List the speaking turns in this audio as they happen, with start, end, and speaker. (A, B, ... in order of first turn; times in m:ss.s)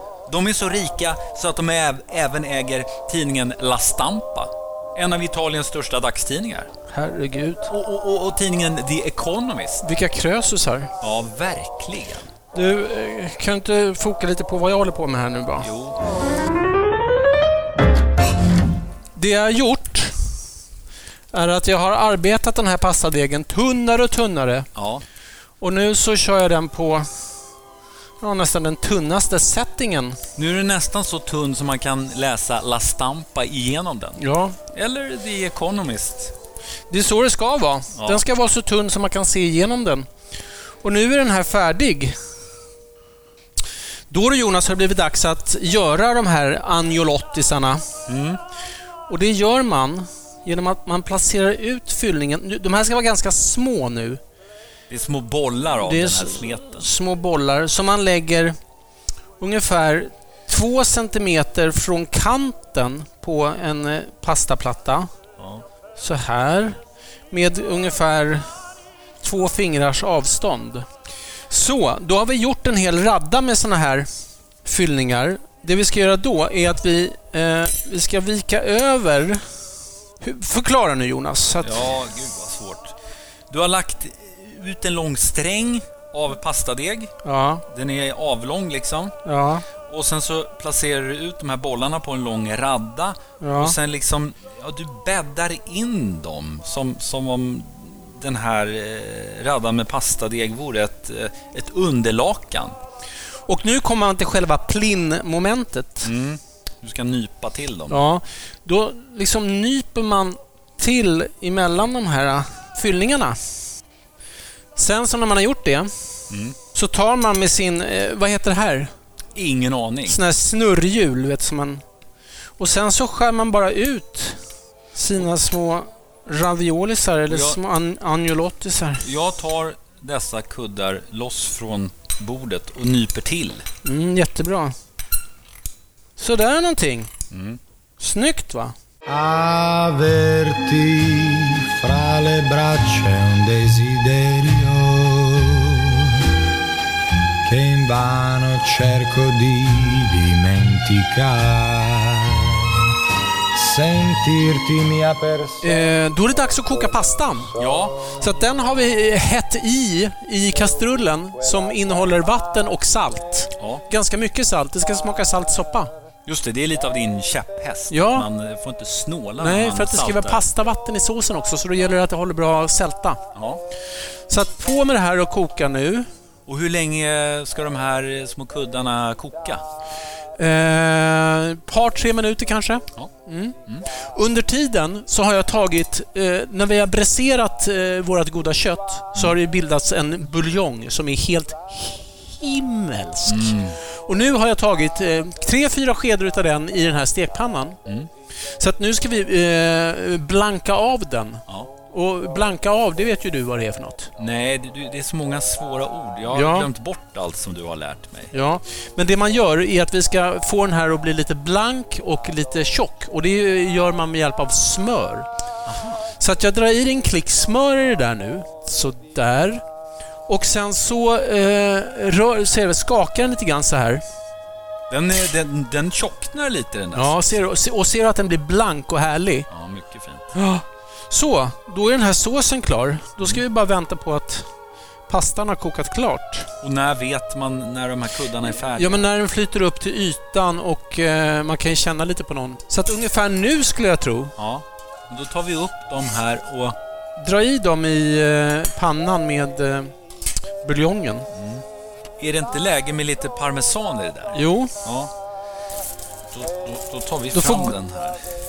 0:00.3-0:06.7 A
0:06.9-0:07.7 B
0:07.7-0:09.8 A
0:09.8-0:10.9 B
0:11.0-0:12.3 A
0:12.5-0:15.7 B
0:15.6-0:16.0 A
0:19.2-0:20.2 B
0:21.3-0:24.7 B
0:24.8-0:25.0 A
0:25.6-0:27.1 B
0:28.2-0:30.2 B
0:30.4-0:34.2 A
0:34.2-0:34.6 B
0:34.7-0:36.4 A
0:36.9-0:40.1 B
0:38.0-0:38.2 A
0:40.8-0:42.2 B
0:44.1-0:47.8 B
0:48.1-0:48.4 A
0:49.1-0:54.2 B
0:54.9-0:56.9 A
0:55.8-0:58.6 B
0:59.4-1:05.1 B
1:05.4-1:05.6 A
1:06.0-1:06.8 B
1:07.3-1:08.5 B
1:09.2-1:10.9 B
1:11.5-1:14.1 B
1:14.6-1:19.4 B
1:20.2-1:21.9 B
1:21.6-1:23.0 A
1:23.5-1:27.2 A
1:27.2-1:27.6 B
1:27.7-1:29.2 A
1:29.2-1:29.6 B
1:29.9-1:42.8 A
1:33.4-1:33.8 B
1:43.5-1:46.1 B
1:46.0-1:48.0 A
1:47.9-1:53.4 B
1:54.8-1:55.9 B
1:56.3-1:56.6 A
1:56.7-1:58.9 B
1:59.4-2:00.2 A
2:00.1-2:01.8 B
2:02.6-2:04.4 B
2:05.0-2:09.0 B
2:07.3-2:07.6 A
2:09.0-2:13.6 A
2:13.8-2:14.8 B
2:16.2-2:17.1 B
2:17.3-2:17.6 A
2:18.0-2:18.7 B
2:19.1-2:26.2 C
2:27.4-2:32.6 C
2:33.5-2:35.8 C
2:35.6-2:37.5 B
2:37.6-2:38.2 A
2:38.2-2:45.9 B
2:43.6-2:43.8 A
2:46.3-2:50.4 A
2:47.9-2:48.3 B
2:49.4-2:53.2 B
2:53.4-2:53.6 A
2:54.3-2:56.1 B
2:56.5-2:59.6 A
3:00.4-3:17.8 B
3:13.3-3:13.8 A
3:18.5-3:24.1 B
3:24.2-3:28.3 A
3:26.3-3:26.7 B
3:28.3-3:35.3 B
3:35.7-3:36.0 A
3:36.2-3:39.6 B
3:40.3-3:44.0 B
3:44.9-3:47.4 A
3:46.9-3:49.5 B
3:49.5-3:50.3 A
3:50.3-3:54.5 B
3:55.1-3:56.5 B
3:56.6-3:59.0 A
3:58.8-4:04.3 B
4:04.4-4:06.8 A
4:07.2-4:09.9 B
4:10.6-4:11.3 B
4:11.3-4:11.6 A
4:12.2-4:15.1 A
4:14.3-4:14.7 B
4:16.3-4:18.2 A
4:17.3-4:17.7 B